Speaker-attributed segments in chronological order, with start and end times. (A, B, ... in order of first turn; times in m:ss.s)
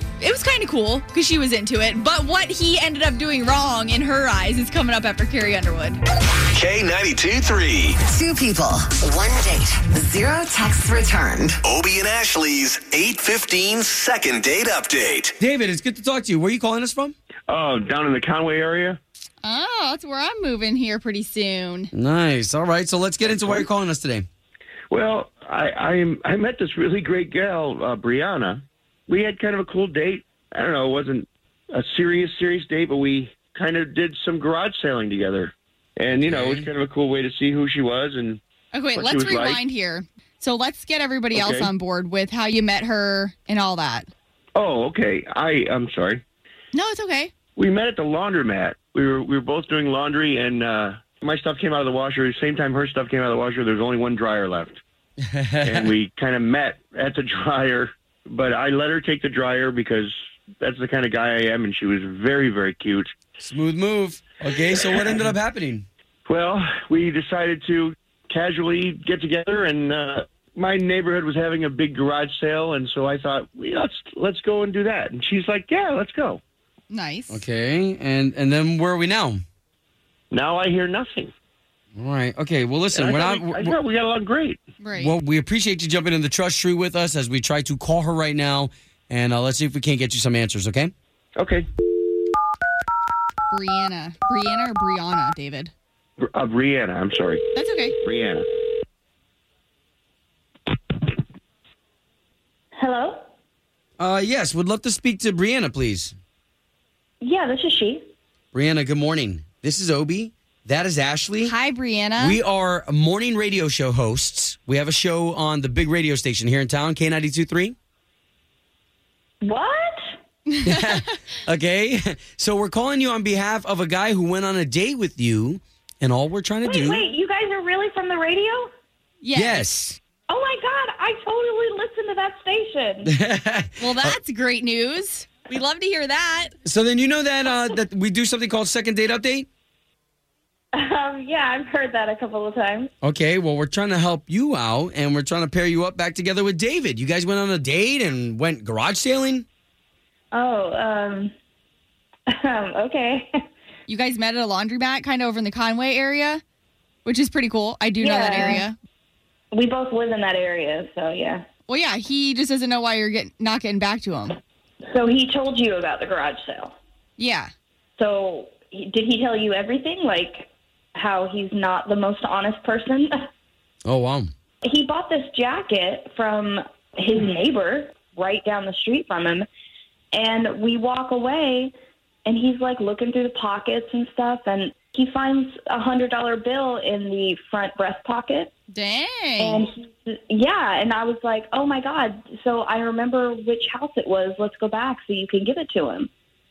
0:00.2-0:06.0 A
0:06.5-0:08.0 B
0:08.0-0:11.6 C
0:11.7-0:15.3 B
0:15.4-0:17.1 D
0:17.5-0:19.0 E
0:19.4-0:21.9 A
0:21.9-0:24.3 D
0:23.2-0:23.7 E
0:24.9-0:38.4 E
0:36.1-0:36.7 D
0:38.7-0:44.1 A
0:38.9-0:39.6 E
0:41.3-0:41.7 E
0:44.5-0:46.2 E
0:46.7-0:47.3 A
0:47.6-0:54.8 E
0:55.3-0:55.9 D
0:55.6-1:03.1 E
1:03.4-1:05.8 D
1:06.2-1:16.4 E
1:16.9-1:17.4 A
1:17.3-1:19.4 D
1:20.3-1:21.3 E
1:21.9-1:23.8 D
1:22.9-1:24.6 E
1:24.8-1:25.2 A
1:25.0-1:30.9 D
1:31.4-1:31.7 E
1:33.5-1:35.7 A
1:36.2-1:37.4 E
1:37.5-1:37.9 A
1:38.0-1:38.4 E
1:42.8-1:43.2 F
1:44.0-1:46.1 D
1:47.2-1:48.0 F
1:48.5-1:51.5 D
1:51.4-1:52.4 A
1:52.2-1:57.8 D
1:59.4-2:00.0 F
2:00.5-2:00.8 A
2:00.6-2:07.0 D
2:06.6-2:08.7 F
2:09.2-2:09.6 A
2:09.3-2:10.0 D
2:10.3-2:13.1 F
2:13.0-2:14.2 D
2:13.8-2:16.5 A
2:16.6-2:19.5 D
2:20.7-2:22.9 F
2:23.0-2:29.4 D
2:30.3-2:31.3 F
2:32.3-2:33.3 F
2:33.9-2:36.4 A
2:37.0-2:38.8 A
2:38.0-2:38.6 F
2:39.5-2:41.4 F
2:41.7-2:44.4 A
2:44.9-2:46.7 F
2:47.2-2:47.5 A
2:48.0-2:53.1 F
2:53.8-2:54.3 D
2:54.6-2:59.4 F
3:00.1-3:01.7 F
3:02.2-3:08.5 F
3:08.7-3:09.6 A
3:09.4-3:16.1 F